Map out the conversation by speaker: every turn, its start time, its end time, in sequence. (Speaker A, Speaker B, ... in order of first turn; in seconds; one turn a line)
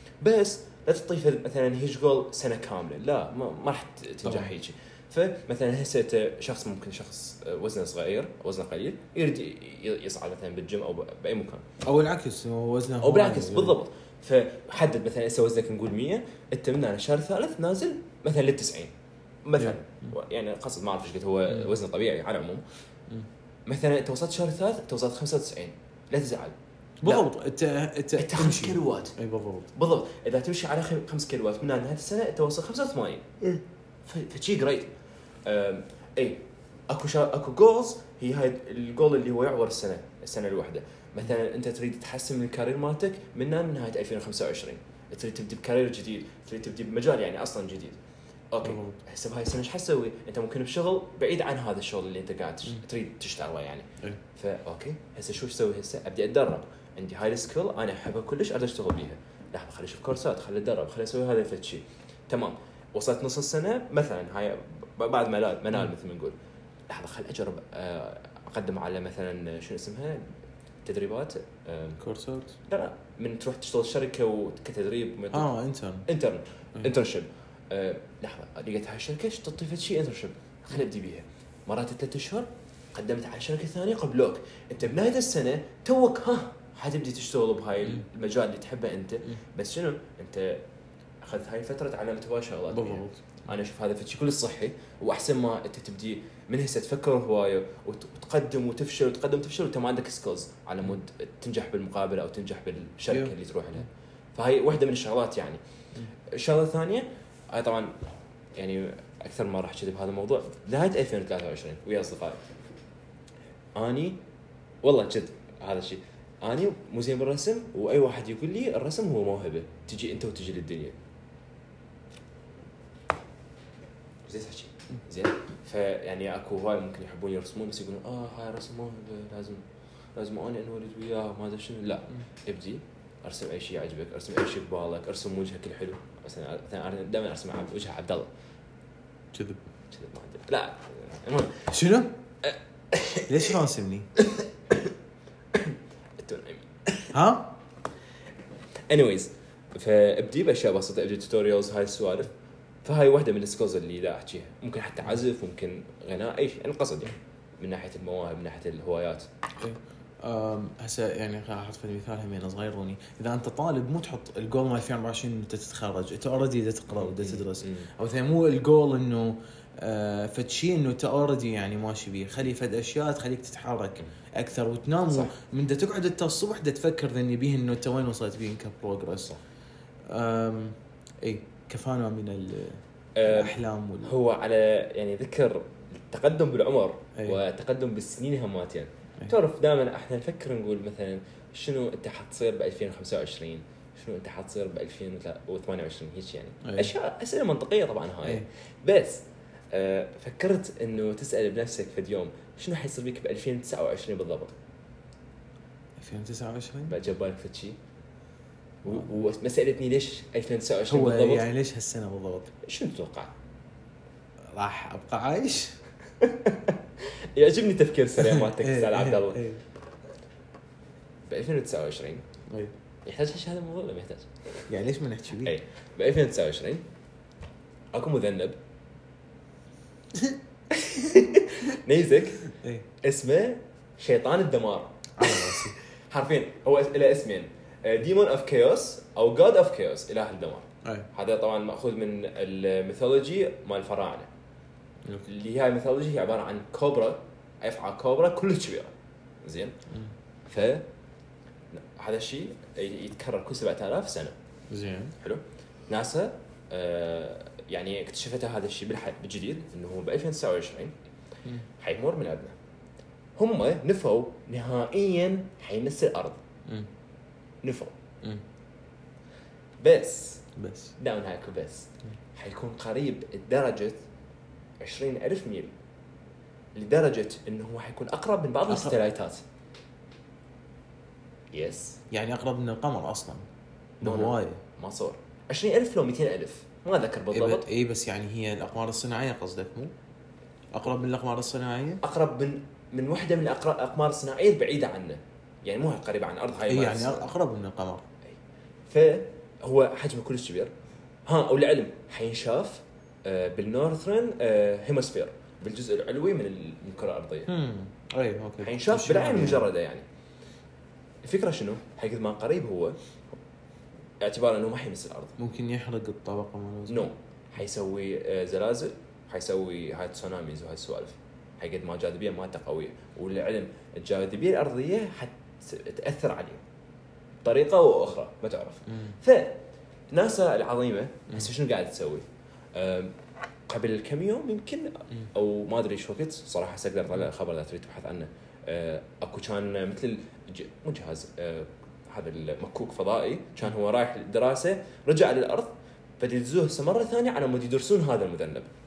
Speaker A: 0.2-11.6
Speaker B: 4.2-4.5
Speaker B: 11.8-13.8
Speaker A: 13.0-18.9
Speaker A: 19.4-22.6
Speaker B: 19.6-20.1
Speaker B: 21.5-21.7
Speaker A: 23.6-27.3
Speaker B: 27.0-29.7
Speaker A: 28.2-29.1
Speaker A: 29.7-33.4
Speaker A: 34.0-34.9
Speaker A: 35.4-48.0
Speaker A: 48.5-66.3
Speaker B: 48.6-49.0
Speaker A: 66.9-70.3
Speaker A: 70.8-72.0
Speaker B: 72.0-72.5
Speaker A: 72.7-75.5
Speaker B: 75.3-76.1
Speaker A: 76.1-90.6
Speaker A: 91.2-105.6
Speaker B: 92.7-93.2
Speaker A: 106.3-108.0
Speaker A: 108.5-112.4
Speaker A: 113.7-114.2
Speaker A: 114.8-121.0
Speaker A: 124.3-129.6
Speaker A: 130.1-138.3
Speaker B: 139.3-139.6
Speaker A: 139.9-141.7
Speaker B: 141.7-142.1
Speaker A: 142.4-143.5
Speaker B: 143.3-144.1
Speaker A: 144.2-144.9
Speaker A: 145.5-146.7
Speaker B: 147.1-147.5
Speaker A: 148.9-152.3
Speaker A: 152.8-159.3
Speaker B: 159.6-179.3
Speaker A: 166.9-167.9
Speaker B: 180.1-184.2
Speaker A: 183.2-204.5
Speaker B: 196.6-196.9
Speaker B: 206.0-206.9
Speaker A: 206.9-207.8
Speaker A: 208.8-211.5
Speaker B: 210.9-212.5
Speaker A: 212.6-213.3
Speaker B: 214.5-215.8
Speaker A: 216.2-219.4
Speaker B: 218.2-219.6
Speaker A: 221.3-222.2
Speaker A: 223.1-224.7
Speaker B: 224.7-225.5
Speaker A: 225.4-226.8
Speaker A: 227.9-228.6
Speaker A: 230.7-232.5
Speaker B: 232.5-232.9
Speaker A: 233.0-244.3
Speaker B: 235.2-235.8
Speaker A: 245.2-248.9
Speaker A: 249.4-249.7
Speaker A: 250.5-250.9
Speaker A: 251.7-254.3
Speaker B: 254.7-255.1
Speaker A: 255.2-260.9
Speaker A: 261.8-262.5
Speaker A: 263.4-266.4
Speaker A: 267.6-267.9
Speaker A: 269.8-270.4
Speaker B: 270.6-270.9
Speaker A: 271.0-274.0
Speaker A: 274.8-275.7
Speaker A: 276.7-279.4
Speaker B: 278.7-278.9
Speaker A: 281.5-282.0
Speaker B: 282.1-283.4
Speaker B: 284.0-284.6
Speaker A: 284.0-287.7
Speaker B: 287.3-289.9
Speaker B: 290.7-292.0
Speaker A: 292.0-297.3
Speaker B: 296.7-298.0
Speaker A: 298.9-300.7
Speaker A: 301.2-307.5
Speaker B: 307.5-309.7
Speaker A: 308.6-310.0
Speaker A: 311.2-312.9
Speaker A: 314.2-315.4
Speaker B: 315.4-317.1
Speaker A: 316.9-326.6
Speaker A: 327.4-333.1
Speaker B: 328.9-329.1
Speaker A: 333.7-348.7